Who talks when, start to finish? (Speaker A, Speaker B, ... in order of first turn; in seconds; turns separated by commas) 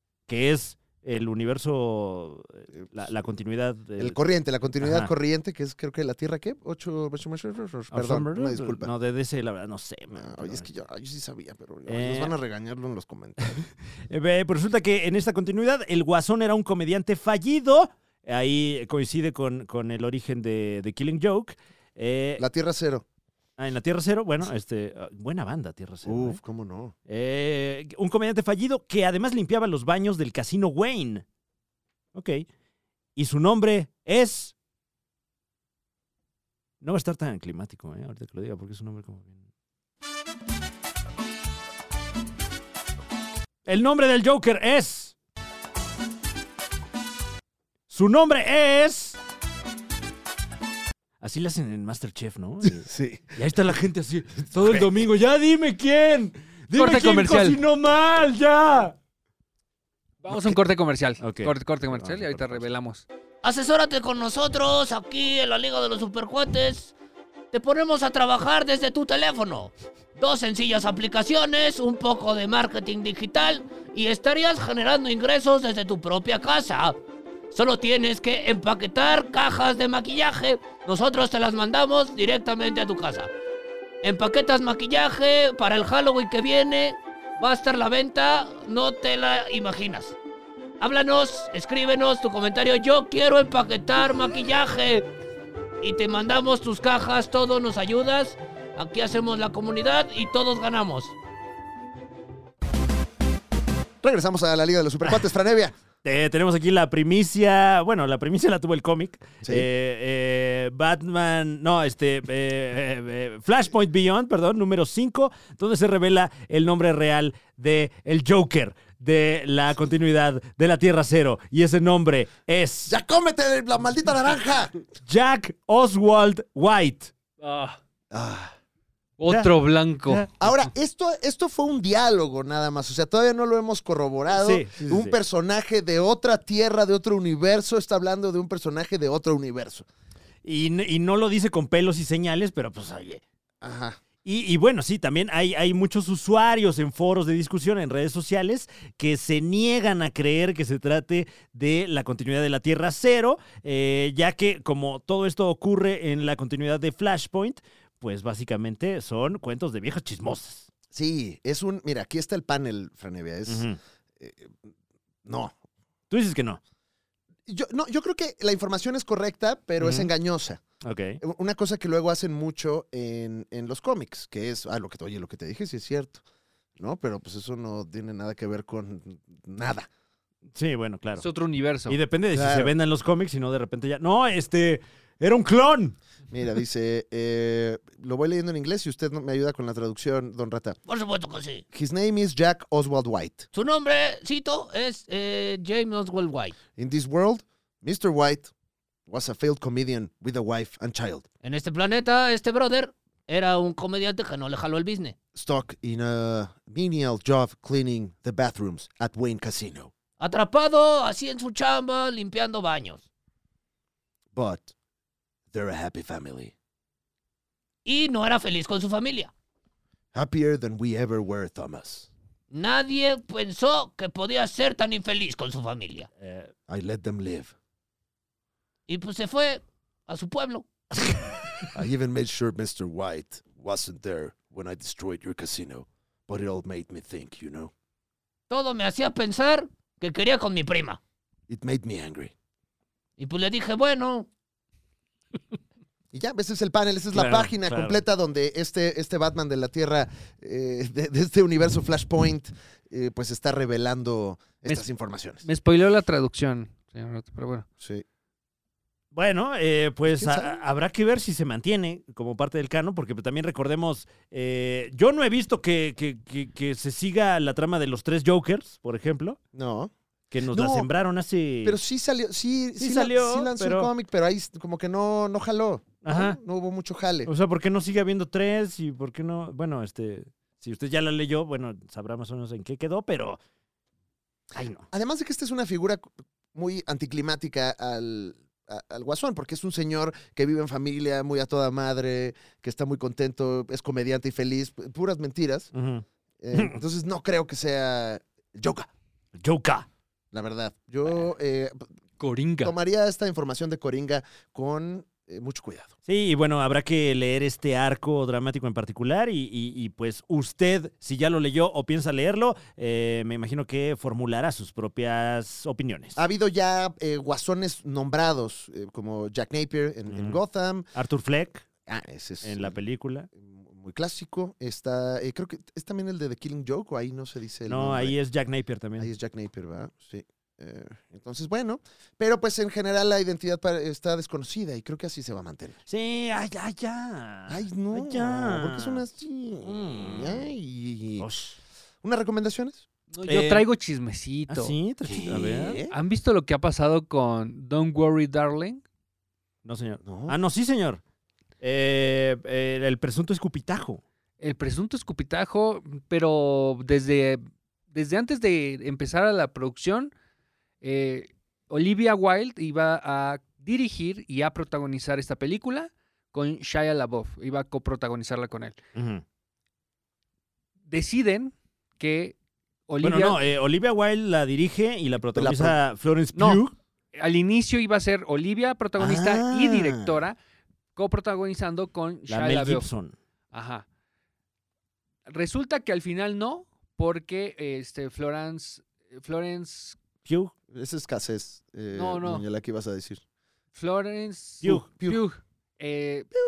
Speaker A: 0.3-4.2, Speaker B: 4.0-8.9, Speaker A: 4.8-5.1, Speaker A: 7.9-10.7, Speaker B: 10.1-13.6, Speaker A: 11.9-12.3, Speaker A: 13.6-22.4, Speaker B: 22.4-23.1, Speaker A: 23.6-26.4, Speaker B: 26.1-26.9, Speaker A: 27.1-31.2, Speaker A: 32.1-32.5, Speaker A: 33.2-34.5, Speaker A: 36.8-39.4, Speaker A: 43.7-45.1, Speaker A: 47.9-49.2, Speaker A: 51.2-59.0, Speaker B: 52.6-53.4, Speaker B: 54.6-54.9, Speaker C: 56.8-57.6, Speaker C: 60.2-63.0, Speaker A: 61.2-62.7, Speaker D: 63.4-66.9, Speaker D: 67.5-77.0, Speaker D: 77.5-83.3, Speaker D: 84.0-90.2, Speaker D: 90.8-95.1, Speaker D: 95.8-101.2, Speaker B: 104.0-105.8, Speaker A: 106.0-123.0, Speaker B: 122.9-124.7, Speaker A: 125.0-127.1, Speaker C: 127.4-127.8, Speaker B: 128.1-128.6, Speaker C: 129.2-130.2, Speaker A: 129.3-129.5, Speaker A: 130.1-130.3, Speaker B: 130.4-139.9, Speaker A: 134.3-135.2, Speaker A: 140.4-143.2, Speaker B: 143.6-144.0, Speaker A: 144.2-160.7, Speaker B: 160.9-163.7, Speaker A: 163.5-163.8, Speaker B: 164.2-164.7, Speaker B: 165.2-165.6, Speaker A: 166.1-166.6, Speaker B: 167.5-170.6, Speaker A: 169.8-170.1, Speaker A: 170.8-171.2, Speaker B: 171.2-176.2, Speaker B: 176.8-179.9, Speaker A: 180.6-181.3, Speaker C: 181.2-182.0, Speaker A: 181.9-186.0, Speaker B: 182.3-182.7, Speaker B: 186.3-190.8, Speaker D: 190.9-191.6, Speaker B: 191.7-193.5, Speaker D: 193.5-196.6, Speaker B: 196.8-198.5, Speaker B: 199.1-201.3, Speaker D: 201.4-205.2, Speaker B: 205.3-209.9, Speaker D: 210.2-213.1, Speaker B: 214.3-214.7, Speaker B: 215.5-216.5, Speaker D: 217.8-219.3, Speaker B: 220.1-222.1, Speaker D: 222.5-226.1, Speaker A: 226.2-226.5, Speaker B: 226.7-227.5, Speaker D: 228.9-230.7, Speaker B: 231.7-237.7, Speaker D: 238.5-241.0, Speaker B: 241.5-242.3, Speaker D: 243.2-244.3, Speaker B: 246.1-255.4, Speaker A: 247.1-248.0, Speaker C: 255.4-257.7, Speaker A: 259.1-269.4, Speaker B: 260.1-260.6, Speaker B: 269.5-269.9, Speaker A: 270.3-271.8, Speaker B: 270.5-270.9, Speaker B: 271.6-277.3, Speaker A: 272.8-273.9, Speaker A: 276.0-276.4, Speaker A: 277.3-283.4, Speaker A: 284.5-284.9, Speaker B: 284.9-295.7, Speaker A: 295.7-296.8, Speaker B: 296.4-298.9, Speaker A: 299.4-299.9, Speaker B: 300.3-301.9, Speaker C: 302.2-302.7, Speaker B: 302.6-305.9, Speaker A: 306.1-316.2, Speaker B: 316.2-320.9, Speaker A: 320.1-320.4, Speaker A: 320.9-321.6, Speaker B: 321.9-322.8, Speaker A: 322.4-323.3, Speaker B: 323.3-328.1, Speaker A: 327.7-329.1, Speaker B: 329.0-335.8, Speaker A: 335.9-339.1, Speaker B: 337.5-341.3, Speaker A: 339.6-340.5, Speaker A: 341.2-341.6, Speaker B: 342.0-342.9, Speaker C: 343.1-344.8, Speaker A: 343.3-343.7, Speaker A: 344.5-345.8, Speaker B: 345.1-345.9, Speaker C: 345.9-348.8, Speaker A: 349.6-351.0, Speaker B: 350.1-350.4, Speaker A: 351.6-354.0, Speaker C: 354.4-360.1, Speaker C: 360.8-368.8, Speaker A: 368.9-369.2, Speaker C: 370.9-372.4, Speaker C: 372.9-373.4, Speaker A: 373.0-376.8, Speaker B: 375.3-375.8, Speaker C: 376.3-376.6, Speaker C: 377.1-380.4, Speaker A: 379.0-380.2, Speaker C: 380.9-382.9, Speaker A: 382.3-383.2, Speaker C: 383.5-383.9, Speaker C: 385.3-390.0, Speaker A: 390.2-390.5, Speaker B: 390.7-393.2, Speaker C: 391.9-392.5, Speaker C: 393.8-396.3, Speaker B: 394.6-395.2